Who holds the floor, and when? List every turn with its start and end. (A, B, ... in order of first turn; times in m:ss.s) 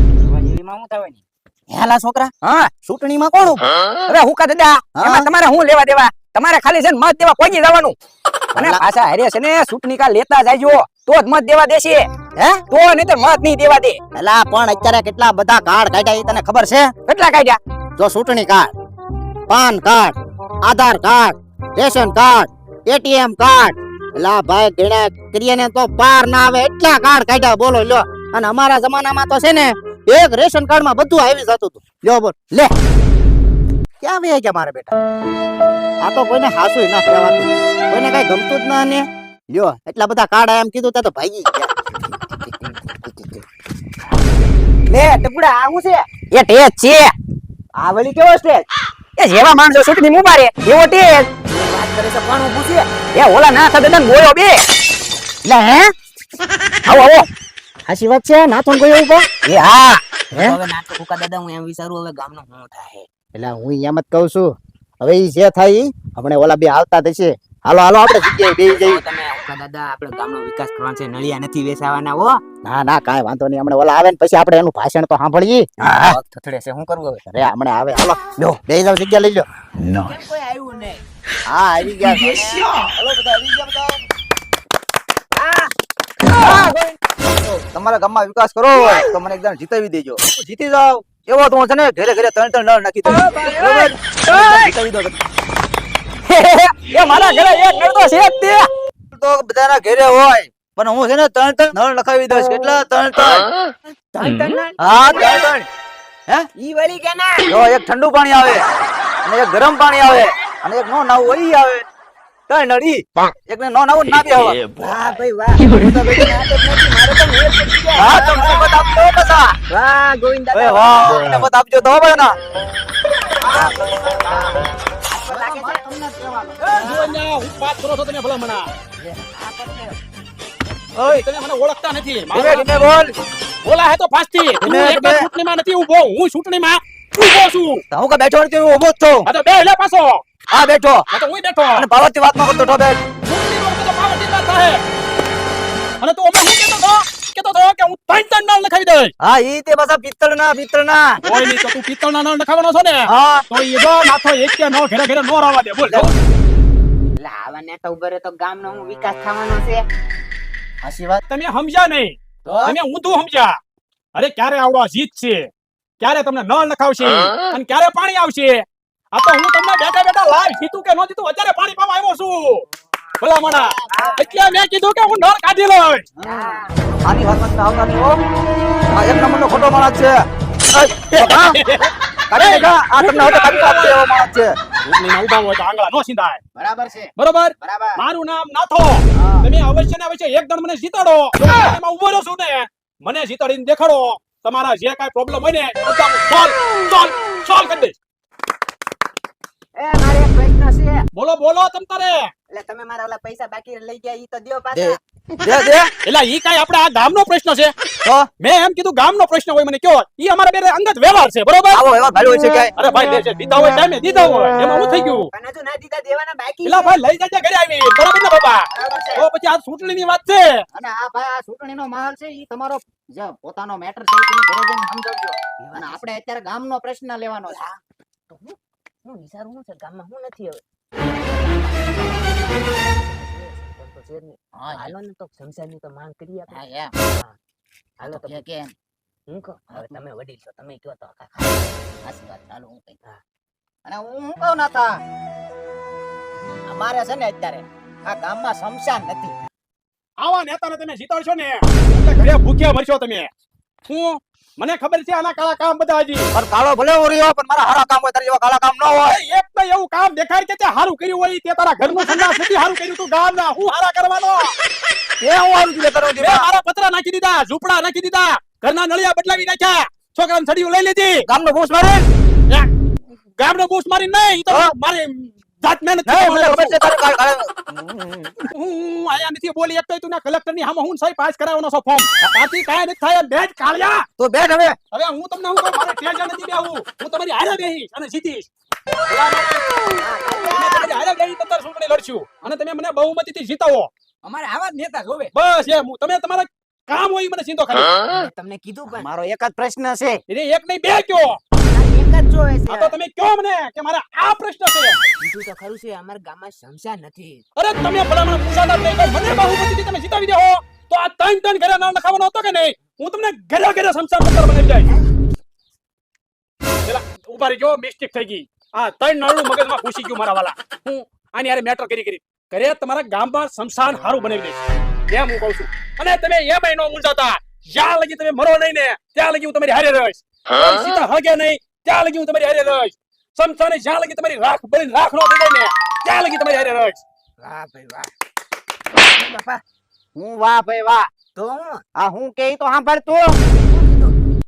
0:00.3-0:01.0 A
0:01.7-0:03.7 A
0:02.4-0:02.7 B
0:04.0-0:08.0 B
0:05.0-0:05.3 A
0:08.6-0:08.8 A
0:08.6-0:12.1 B
0:12.4-0:12.6 A
0:12.7-0:14.0 B
0:14.1-0:16.9 A
0:17.1-0:17.6 B
0:18.0-0:18.7 A
0:19.5-0:32.7 A
0:34.0-0:34.9 A
0:36.0-0:41.7 A
0:42.5-0:43.4 C
0:44.9-0:46.1 C
0:46.3-0:47.1 B
0:47.8-0:48.7 C
0:49.2-0:51.3 B
0:51.5-0:52.9 C
0:53.1-0:54.6 B
0:55.4-0:55.9 A
0:56.9-0:57.3 B
0:57.9-0:59.3 A
1:00.3-1:03.1 C
1:03.3-1:09.0 A
1:08.7-1:12.4 C
1:12.6-1:15.6 A
1:16.0-1:17.2 C
1:17.3-1:19.4 A
1:19.9-1:21.0 C
1:21.5-1:22.7 A
1:22.9-1:23.9 D
1:25.4-1:25.7 C
1:26.4-1:26.9 B
1:27.7-1:35.2 D
1:33.2-1:34.7 B
1:36.3-1:38.7 B
1:39.1-1:43.5 D
1:44.1-1:45.4 C
1:44.8-1:45.7 D
1:46.6-1:47.5 C
1:47.5-1:48.6 D
1:49.2-1:51.8 D
1:52.5-1:54.7 D
1:54.8-1:58.6 C
1:58.0-1:59.6 D
1:59.7-2:01.3 C
2:00.5-2:02.3 D
2:03.4-2:04.5 A
2:05.1-2:05.8 C
2:05.2-2:06.7 A
2:06.6-2:08.7 E
2:06.8-2:07.1 C
2:09.3-2:09.9 C
2:11.0-2:12.7 E
2:12.3-2:13.1 D
2:13.6-2:17.8 E
2:14.6-2:15.3 D
2:17.9-2:19.3 D
2:19.2-2:20.2 E
2:20.5-2:21.0 D
2:21.1-2:21.9 E
2:21.7-2:23.0 D
2:23.2-2:24.8 E
2:26.0-2:29.1 E
2:29.2-2:31.2 D
2:31.2-2:36.2 E
2:33.1-2:33.4 D
2:37.2-2:39.8 C
2:40.8-2:41.2 A
2:41.3-2:43.6 E
2:44.2-2:52.7 E
2:53.2-2:56.0 E
2:53.9-2:54.2 C
2:56.2-2:56.6 C
2:56.3-2:56.6 A
2:57.0-2:58.2 D
2:58.9-3:00.2 D
3:00.7-3:01.6 D
3:01.2-3:04.0 E
3:02.3-3:04.5 D
3:04.8-3:06.4 E
3:06.6-3:08.0 A
3:07.2-3:17.9 E
3:09.2-3:09.5 A
3:19.8-3:21.1 C
3:21.1-3:22.3 E
3:22.5-3:25.6 C
3:24.7-3:25.9 D
3:26.0-3:27.7 E
3:28.4-3:31.8 E
3:31.7-3:32.7 D
3:32.8-3:35.3 E
3:35.3-3:37.0 C
3:36.6-3:40.6 E
3:38.7-3:39.2 A
3:40.7-3:47.6 A
3:45.6-3:46.0 C
3:48.3-3:57.4 C
3:54.5-3:54.9 A
3:56.5-3:56.9 A
3:58.0-3:58.4 C
3:58.0-3:58.7 A
3:59.3-4:01.7 C
3:59.7-4:00.0 A
4:02.0-4:02.9 A
4:03.8-4:04.9 A
4:06.7-4:09.3 A
4:10.2-4:13.3 E
4:13.9-4:16.3 E
4:16.3-4:19.2 D
4:19.0-4:24.5 E
4:25.2-4:26.5 D
4:26.2-4:31.2 E
4:31.3-4:32.0 D
4:33.4-4:36.9 E
4:36.1-4:38.5 D
4:38.5-4:44.1 E
4:44.2-4:44.8 D
4:44.9-4:48.5 E
4:49.1-4:49.6 E
4:50.1-4:50.6 C
4:50.2-4:50.5 A
4:50.5-4:53.9 E
4:54.2-4:55.3 C
4:55.3-4:58.0 E
4:58.1-4:59.1 C
4:58.9-5:00.2 A
5:00.3-5:01.4 E
5:01.6-5:03.0 C
5:02.7-5:05.0 E
5:05.2-5:07.4 C
5:07.6-5:14.9 E
5:16.9-5:37.0 E
5:37.4-5:38.1 C
5:39.0-5:39.6 C
5:40.2-5:41.1 A
5:41.4-5:41.8 C
5:42.0-5:43.4 A
5:43.6-5:44.2 C